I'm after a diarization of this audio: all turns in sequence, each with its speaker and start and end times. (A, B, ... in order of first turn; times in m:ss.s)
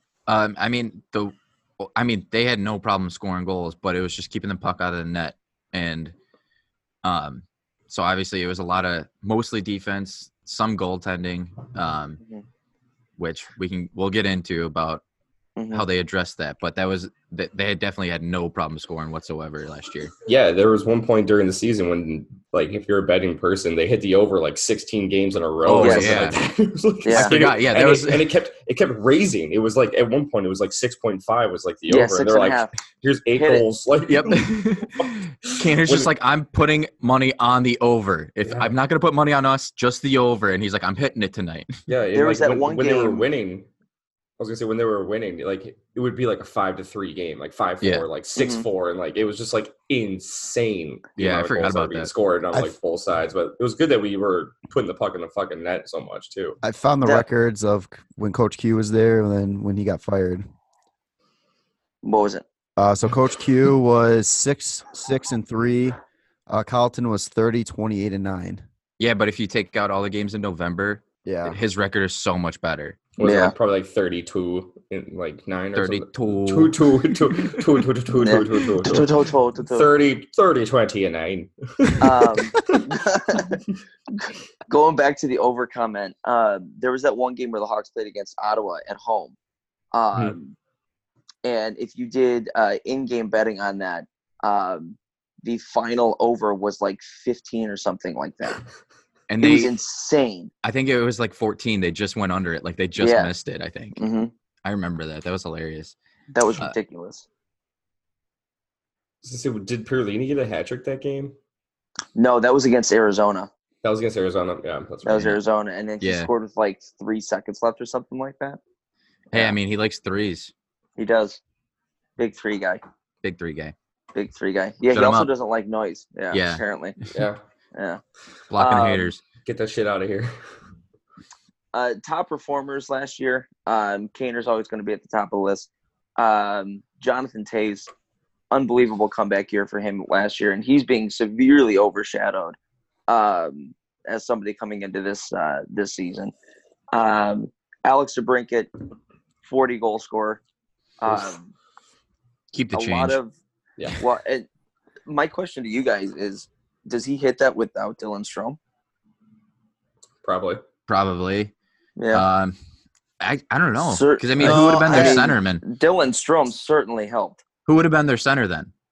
0:00.3-0:06.1 A
0:07.0-0:12.2 A
0:13.2-0:15.0 A
0:15.6-0:15.9 B
0:15.7-0:20.1 A
0:20.2-0:36.1 C
0:25.6-0:26.4 A
0:25.8-0:26.3 B
0:27.0-0:27.4 B
0:27.1-0:28.3 A
0:31.9-0:32.7 B
0:33.4-0:33.6 B
0:34.1-0:41.8 A
0:38.5-0:38.7 C
0:41.9-0:43.7 C
0:42.1-0:43.3 B
0:44.4-0:56.6 C
0:48.4-0:48.6 B
0:51.2-0:52.1 A
0:56.6-1:00.5 D
1:02.0-1:02.4 B
1:02.8-1:08.6 D
1:09.0-1:13.0 A
1:11.2-1:11.6 D
1:13.2-1:19.1 C
1:13.2-1:13.5 B
1:15.8-1:16.8 A
1:18.2-1:19.9 B
1:19.7-1:22.8 C
1:22.0-1:23.6 B
1:24.2-1:29.4 B
1:29.9-1:30.6 B
1:31.4-1:38.6 B
1:39.3-1:39.7 A
1:39.4-1:40.5 B
1:40.6-1:44.0 A
1:43.0-1:43.3 B
1:44.0-1:44.3 B
1:44.6-1:46.0 A
1:46.3-1:47.3 B
1:49.2-1:51.4 C
1:52.2-1:53.5 B
1:53.8-1:55.3 C
1:55.0-1:58.6 B
1:56.0-1:56.3 A
1:59.3-1:59.6 B
1:59.3-2:00.5 A
2:01.0-2:01.4 B
2:02.2-2:02.8 B
2:03.2-2:03.7 A
2:04.2-2:07.0 B
2:04.9-2:05.3 A
2:06.3-2:06.6 A
2:07.1-2:07.4 C
2:07.8-2:08.0 B
2:08.5-2:09.2 A
2:08.6-2:09.1 B
2:09.4-2:10.3 C
2:11.7-2:17.9 B
2:18.5-2:22.6 B
2:23.1-2:26.3 B
2:26.9-2:28.7 B
2:29.4-2:30.4 B
2:31.0-2:31.5 B
2:32.5-2:33.2 A
2:32.7-2:33.4 B
2:34.0-2:34.5 B
2:35.1-2:38.6 B
2:40.2-2:40.6 C
2:40.9-2:41.5 A
2:42.0-2:42.2 B
2:42.1-2:42.6 A
2:43.2-2:45.6 A
2:43.8-2:47.4 B
2:44.4-2:45.2 D
2:47.7-2:48.7 A